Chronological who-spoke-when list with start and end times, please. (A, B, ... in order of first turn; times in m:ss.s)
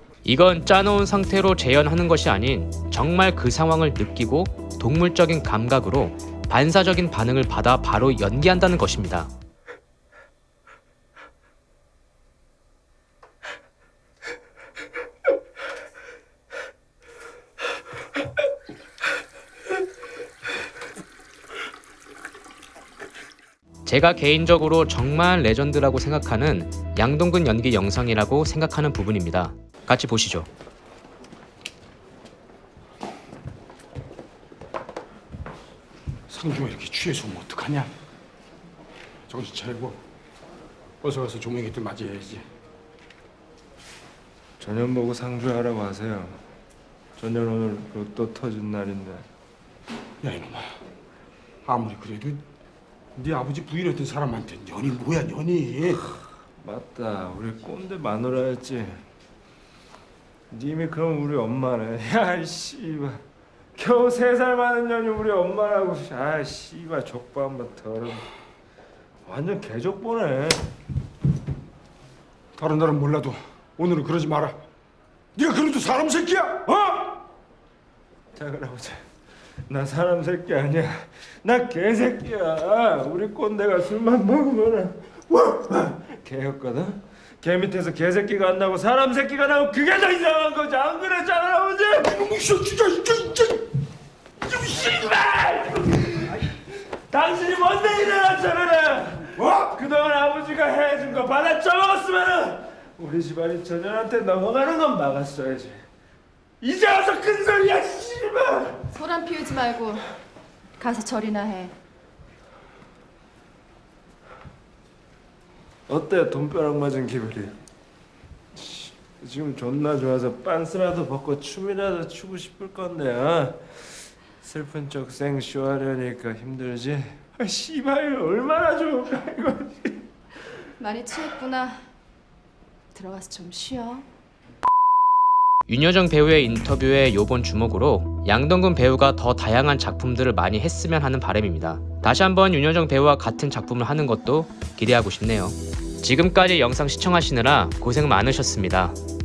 0:00.2-0:09.3 A
0:23.8-0:30.5 A
0:36.3-0:37.9 B
0:39.3-0:40.0 B
0:41.0-0:42.4 B
0:44.6-0:46.4 C
0:47.2-0:49.2 C
0:50.2-0:50.8 B
0:51.6-0:52.4 B
0:53.2-0:56.1 B
0:56.6-0:58.9 C
1:00.5-1:03.2 C
1:03.8-1:08.2 C
1:09.2-1:10.6 C
1:12.6-1:14.6 B
1:15.4-1:17.2 B
1:18.3-1:19.0 C
1:19.7-1:32.2 C
1:32.1-1:33.7 B
1:34.5-1:36.4 C
1:37.1-1:45.8 C
1:46.6-1:48.9 C
1:48.9-1:50.1 D
1:50.8-1:51.7 D
1:55.9-1:57.6 C
1:58.6-2:03.6 C
2:04.4-2:10.0 C
2:10.8-2:11.8 D
2:13.0-2:14.0 D
2:15.7-2:29.0 A